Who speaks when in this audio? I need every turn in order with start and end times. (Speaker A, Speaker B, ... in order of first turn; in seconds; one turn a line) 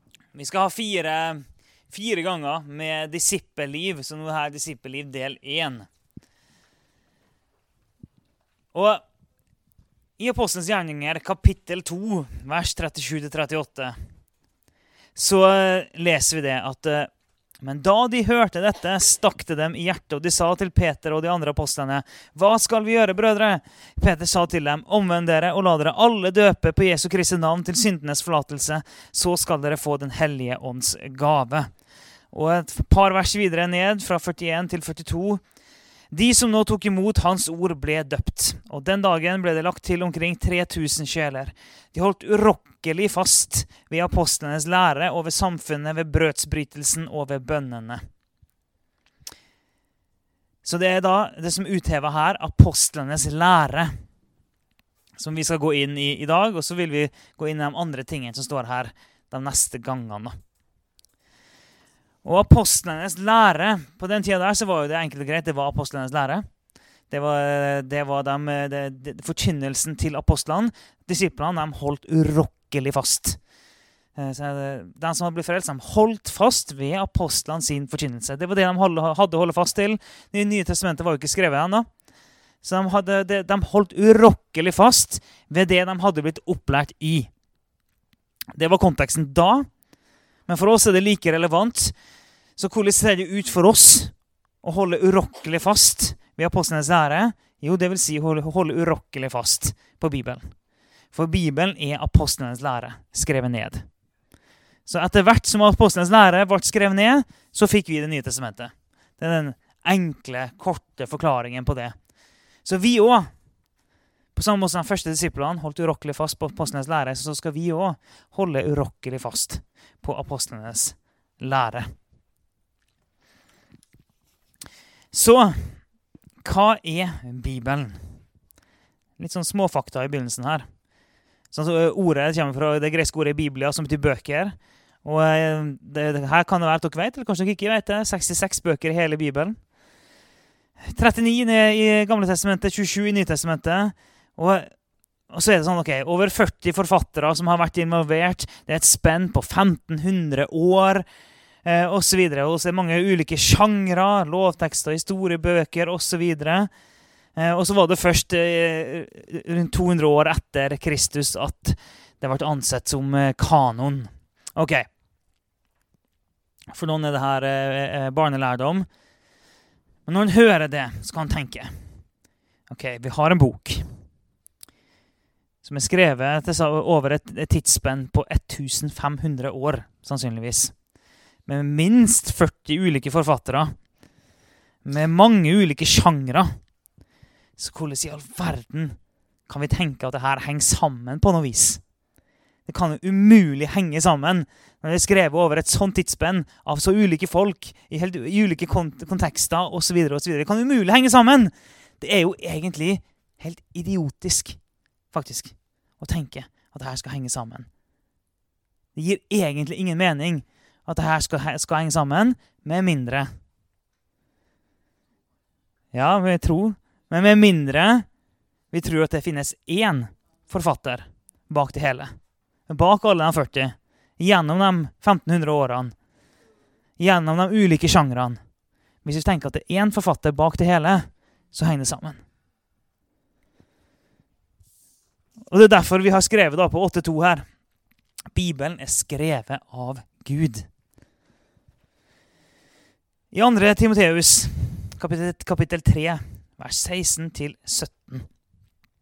Speaker A: 0.3-5.9
Speaker A: 8.7-9.0
Speaker A: 10.2-14.0
Speaker A: 15.2-31.7
Speaker A: 32.3-35.4
Speaker A: 36.1-48.0
Speaker A: 50.6-53.9
Speaker A: 55.2-60.4
Speaker A: 62.2-66.5
Speaker A: 67.1-73.4
Speaker A: 74.2-81.9
Speaker A: 82.6-87.3
Speaker A: 88.5-89.8
Speaker A: 90.5-92.0
Speaker A: 92.6-100.5
Speaker A: 101.1-103.9
Speaker A: 104.9-112.1
Speaker A: 112.6-113.4
Speaker A: 114.3-121.9
Speaker A: 125.1-128.2
Speaker A: 129.2-130.8
Speaker A: 131.5-139.7
Speaker A: 140.9-144.8
Speaker A: 145.3-151.1
Speaker A: 151.6-156.7
Speaker A: 157.3-164.9
Speaker A: 166.7-168.9
Speaker A: 170.1-171.7
Speaker A: 172.7-173.9
Speaker A: 175.6-180.8
Speaker A: 181.4-183.8
Speaker A: 184.8-186.6
Speaker A: 187.6-191.8
Speaker A: 192.7-204.6
Speaker A: 205.1-207.7
Speaker A: 208.9-213.3
Speaker A: 215.9-218.1
Speaker A: 218.7-222.1
Speaker A: 222.7-225.9
Speaker A: 227.0-228.4
Speaker A: 229.0-232.2
Speaker A: 235.5-237.5
Speaker A: 238.3-240.7
Speaker A: 243.3-248.3